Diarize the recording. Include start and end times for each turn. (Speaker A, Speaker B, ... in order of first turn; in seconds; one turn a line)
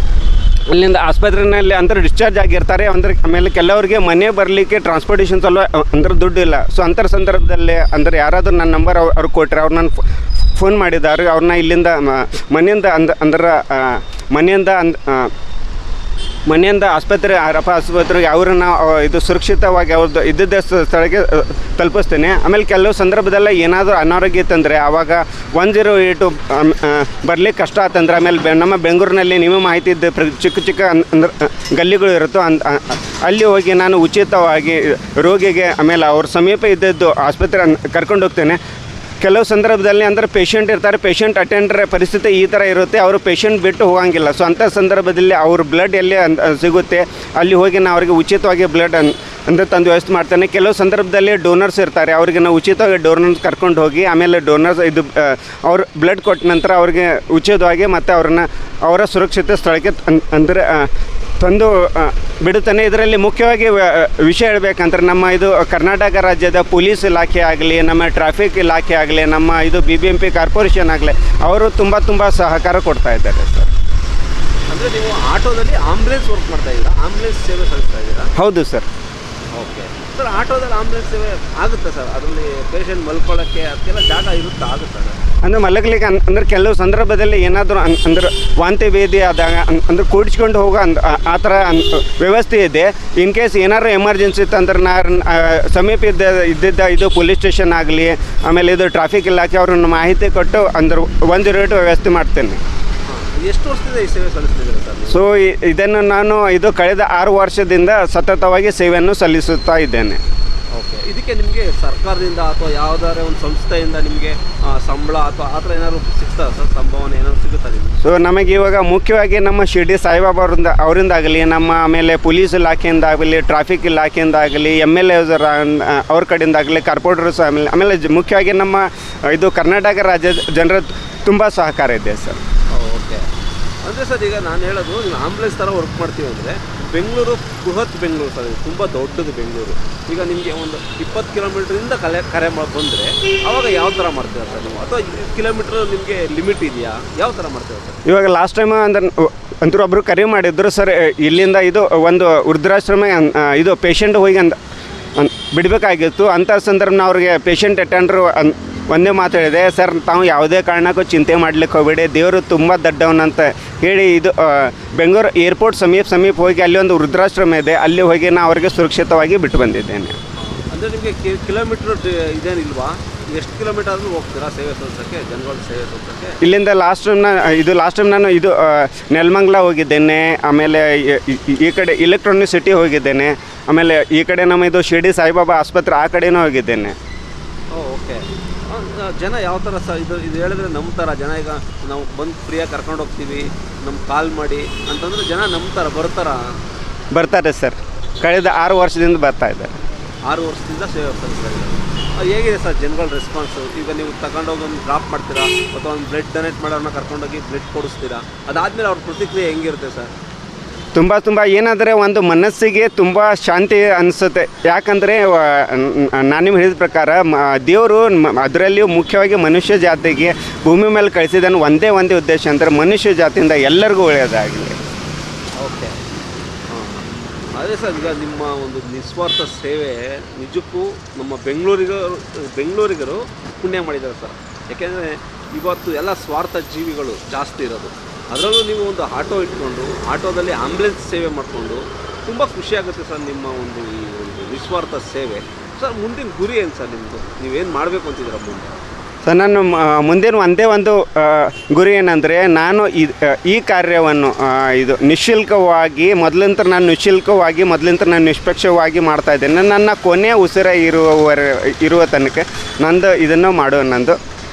Speaker A: 0.7-10.0
Speaker A: 10.5-15.3
Speaker A: 16.5-38.6
Speaker A: 39.2-73.7
Speaker B: 74.7-78.3
Speaker A: 78.3-78.8
Speaker B: 79.5-85.2
Speaker A: 85.4-102.6
Speaker B: 103.0-105.2
Speaker A: 105.1-110.2
Speaker B: 110.7-118.0
Speaker A: 118.0-132.4
Speaker B: 132.7-133.2
Speaker B: 133.8-148.0
Speaker A: 148.1-154.6
Speaker A: 155.2-170.2
Speaker B: 170.4-176.4
Speaker A: 176.4-186.9
Speaker B: 187.7-196.6
Speaker A: 197.1-199.7
Speaker B: 200.3-210.1
Speaker A: 210.9-224.8
Speaker B: 225.6-226.0
Speaker B: 226.7-248.7
Speaker A: 249.2-264.2